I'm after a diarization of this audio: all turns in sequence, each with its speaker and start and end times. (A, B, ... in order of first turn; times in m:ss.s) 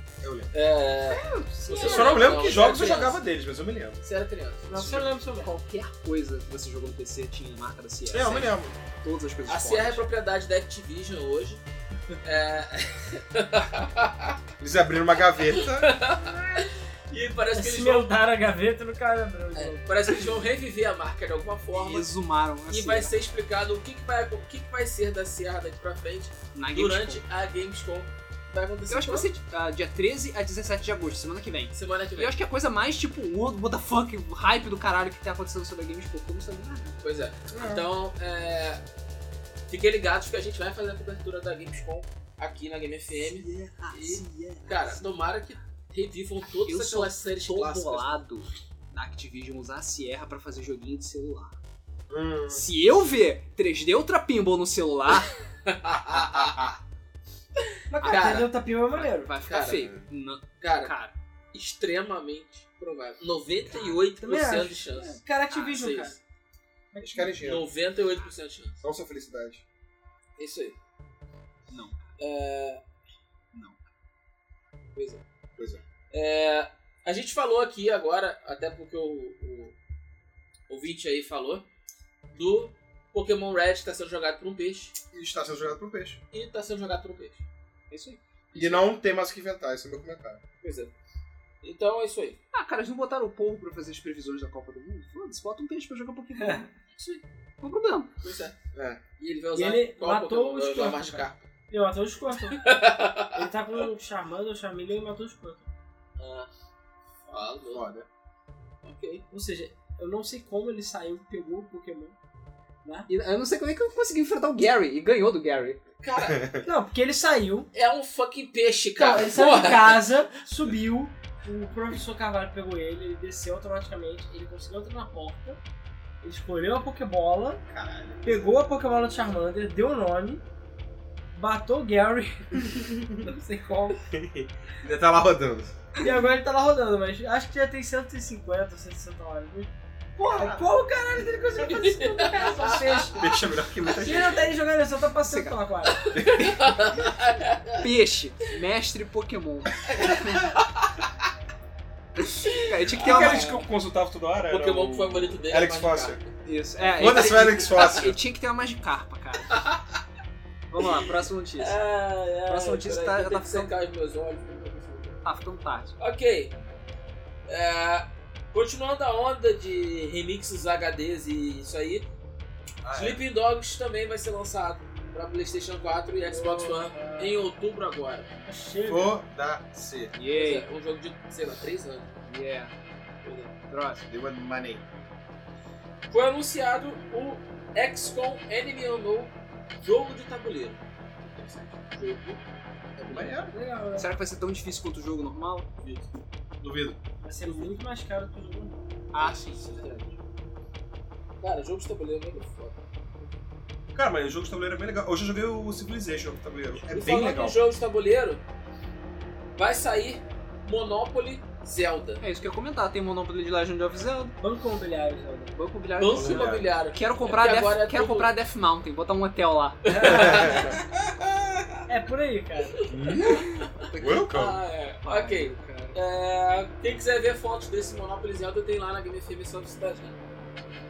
0:00.2-0:00.5 A
0:00.5-0:03.2 B
0:01.1-0:02.6 C
0:01.8-0:04.0 A
0:04.0-0:05.0 B
0:04.7-0:05.5 C
0:04.8-0:10.0 D
0:08.1-0:08.8 A
0:09.5-0:11.6 B
0:12.2-0:14.4 B
0:14.6-0:16.0 A
0:15.5-0:18.2 B
0:17.5-0:20.2 C
0:19.6-0:22.1 B
0:21.7-0:23.1 D
0:22.7-0:29.3 B
0:26.6-0:27.2 D
0:28.9-0:37.0 D
0:31.7-0:32.4 B
0:37.0-0:38.8 B
0:37.5-0:37.8 C
0:39.7-0:48.2 B
0:43.2-0:45.1 D
0:46.7-0:51.6 D
0:52.1-0:52.6 A
0:52.5-0:55.3 D
0:55.7-0:56.7 B
0:55.9-0:56.8 A
0:57.9-0:59.3 C
0:58.0-0:58.5 B
0:58.9-1:01.1 D
0:59.5-1:00.0 B
0:59.7-1:00.0 A
1:00.6-1:00.9 B
1:01.5-1:06.2 B
1:03.7-1:04.0 D
1:04.2-1:06.2 C
1:06.9-1:07.4 C
1:07.0-1:07.6 A
1:07.4-1:08.8 B
1:08.8-1:09.6 A
1:10.4-1:10.8 B
1:11.7-1:12.0 D
1:12.2-1:12.8 B
1:13.5-1:13.8 D
1:15.0-1:15.2 B
1:15.6-1:15.8 A
1:16.1-1:19.7 B
1:20.7-1:21.6 B
1:22.3-1:25.0 B
1:25.1-1:26.2 A
1:26.3-1:27.4 B
1:27.9-1:28.2 D
1:28.5-1:28.8 B
1:28.6-1:30.4 A
1:30.6-1:30.9 B
1:31.6-1:32.4 B
1:32.5-1:38.1 D
1:36.4-1:36.7 C
1:38.2-1:38.6 B
1:38.7-1:39.0 A
1:39.2-1:41.4 B
1:39.5-1:42.6 C
1:42.5-1:43.5 B
1:43.3-1:45.7 C
1:46.2-1:46.5 B
1:47.3-1:47.9 B
1:47.7-1:48.1 A
1:48.8-1:49.2 B
1:49.3-1:52.2 C
1:52.8-1:53.1 C
1:53.1-1:55.8 D
1:56.0-1:56.5 B
1:56.2-1:56.6 A
1:56.6-1:57.7 C
1:57.7-2:00.1 B
1:59.0-2:05.6 C
2:06.2-2:07.6 C
2:07.7-2:08.5 A
2:08.2-2:10.4 C
2:11.3-2:14.0 C
2:14.1-2:15.8 A
2:16.0-2:26.0 C
2:21.7-2:23.1 B
2:23.2-2:24.5 A
2:25.2-2:25.6 D
2:26.0-2:27.9 B
2:26.1-2:26.7 D
2:26.1-2:26.7 A
2:27.8-2:30.5 D
2:29.9-2:30.9 B
2:32.2-2:33.5 D
2:32.5-2:33.6 B
2:32.9-2:36.2 A
2:34.5-2:36.3 B
2:36.4-2:39.6 D
2:36.9-2:38.0 B
2:37.0-2:38.2 A
2:39.5-2:39.8 B
2:40.7-2:41.8 D
2:40.8-2:45.2 B
2:42.5-2:43.7 D
2:45.2-2:46.0 D
2:46.0-2:46.5 B
2:47.5-2:52.1 B
2:52.8-2:53.2 A
2:52.9-2:58.3 B
2:56.3-2:57.4 C
2:58.4-2:59.2 C
2:58.8-3:00.1 A
3:00.1-3:00.7 D
3:00.3-3:02.2 B
3:02.3-3:02.7 D
3:03.2-3:03.6 B
3:03.7-3:04.0 D
3:04.1-3:04.8 A
3:06.1-3:12.4 B
3:13.0-3:13.4 B
3:13.1-3:13.6 A
3:13.5-3:14.1 C
3:14.0-3:15.7 D
3:15.8-3:16.1 B
3:16.6-3:17.0 A
3:17.2-3:18.8 C
3:19.1-3:19.8 D
3:19.2-3:20.1 B
3:21.4-3:22.8 B
3:24.0-3:27.6 A
3:26.8-3:28.4 B
3:29.6-3:32.2 B
3:32.2-3:34.4 D
3:34.4-3:35.6 C
3:35.6-3:40.4 D
3:36.0-3:38.3 B
3:36.1-3:36.7 A
3:39.9-3:40.8 B
3:39.9-3:40.7 C
3:40.0-3:40.8 A
3:41.9-3:42.9 C
3:42.9-3:50.2 B
3:42.9-3:44.6 A
3:45.0-3:46.0 D